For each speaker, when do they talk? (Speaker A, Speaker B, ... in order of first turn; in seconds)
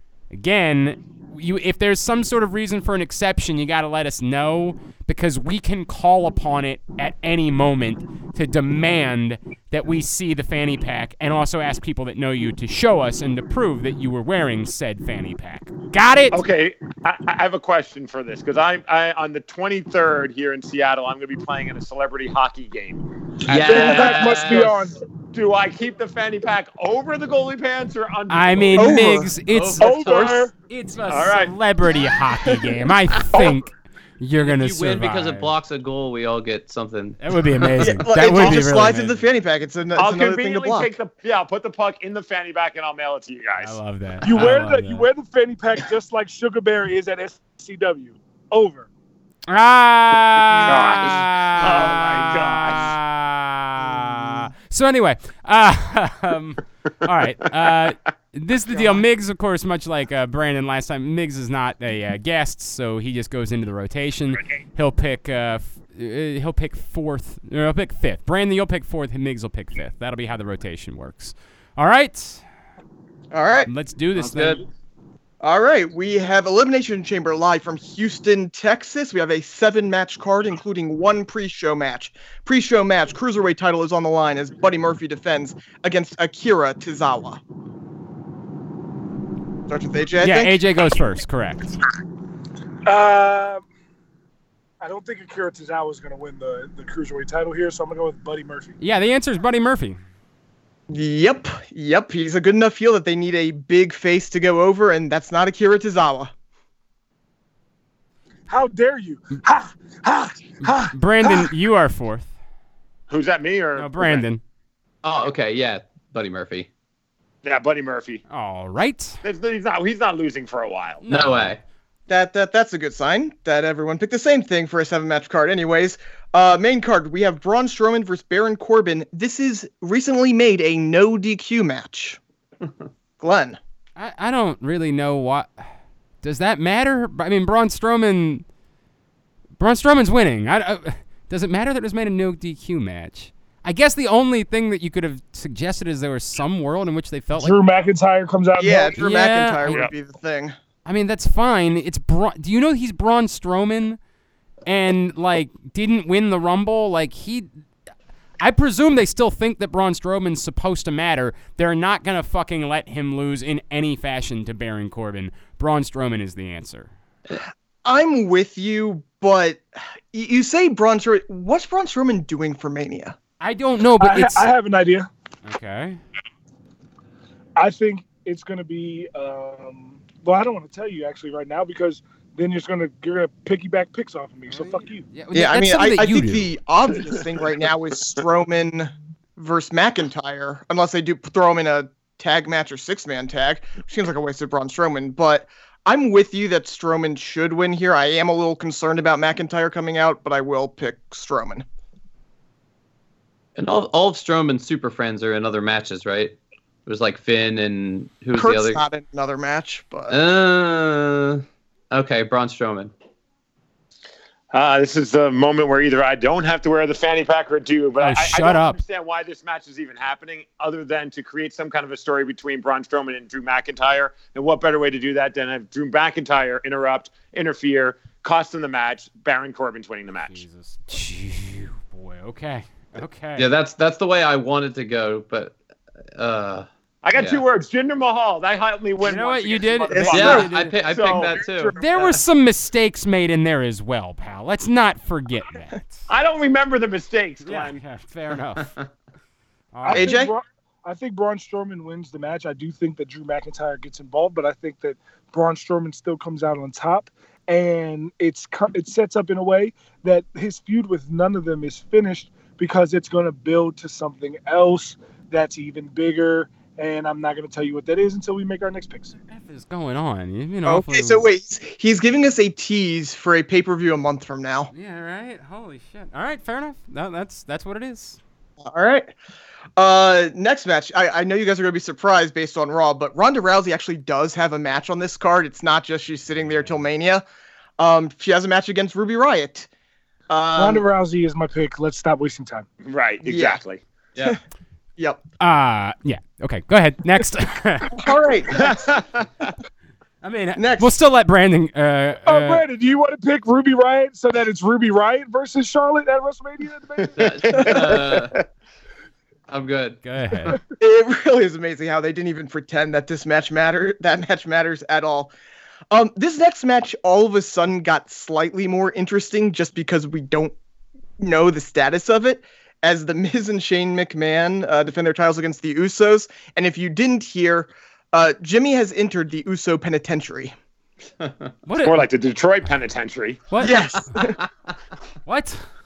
Speaker A: 0.3-16.4, 28.3-35.5, 37.2-39.2, 43.6-45.1, 49.5-72.4, 73.7-74.6, 90.2-91.7, 98.8-100.0, 110.7-112.3, 113.8-114.4, 118.3-119.2, 121.0-121.5, 134.0-135.6, 136.2-138.4, 139.6-147.6, 149.0-149.9, 150.9-154.0, 154.7-157.5, 158.4-166.9, 173.4-174.5, 175.4-176.0, 184.5-186.5, 218.0-218.8, 230.3-233.5, 239.0-240.7, 241.8-246.0, 247.4-248.7, 249.7-250.2, 269.3-271.3, 274.7-278.2, 295.4-297.9, 300.2-302.6, 310.0-310.6, 331.7-332.1, 333.5-334.1, 335.3-335.6
Speaker B: 16.3-24.8, 25.3-29.0, 31.1-31.5, 40.0-43.8, 50.6-53.0, 113.1-114.2, 117.4-118.2, 119.2-121.0, 214.5-230.4, 237.0-241.4, 246.1-247.8, 292.8-293.8, 298.6-299.5, 307.0-308.4, 331.8-333.4
Speaker C: 23.5-24.8, 29.5-30.5, 34.4-37.9, 74.2-74.6, 115.0-116.7, 121.1-121.6, 203.6-208.8, 210.1-212.9, 233.4-235.6, 236.2-237.4, 240.1-242.2, 307.2-308.4, 309.5-310.0, 331.2-331.5, 333.6-334.4
Speaker D: 23.5-24.9, 29.8-30.5, 44.2-48.9, 92.9-93.6, 94.8-98.8, 108.5-111.5, 147.4-149.0, 174.0-175.1, 177.6-185.1, 249.8-269.1, 290.6-292.7, 302.3-307.1
Speaker E: 28.8-29.3, 37.8-40.9, 73.3-73.7, 75.4-87.4, 89.7-90.6, 100.9-106.3, 122.1-132.2, 133.2-133.6, 148.6-150.6, 167.8-173.2, 185.3-201.7, 208.3-210.2, 239.9-240.5, 249.9-250.3, 270.6-274.7, 278.6-279.1, 279.8-287.2, 287.8-289.7, 290.3-290.8, 293.2-293.6, 297.9-299.0, 300.6-300.9, 307.5-307.8, 310.8-315.3, 315.9-320.6, 321.2-330.5, 333.6-334.4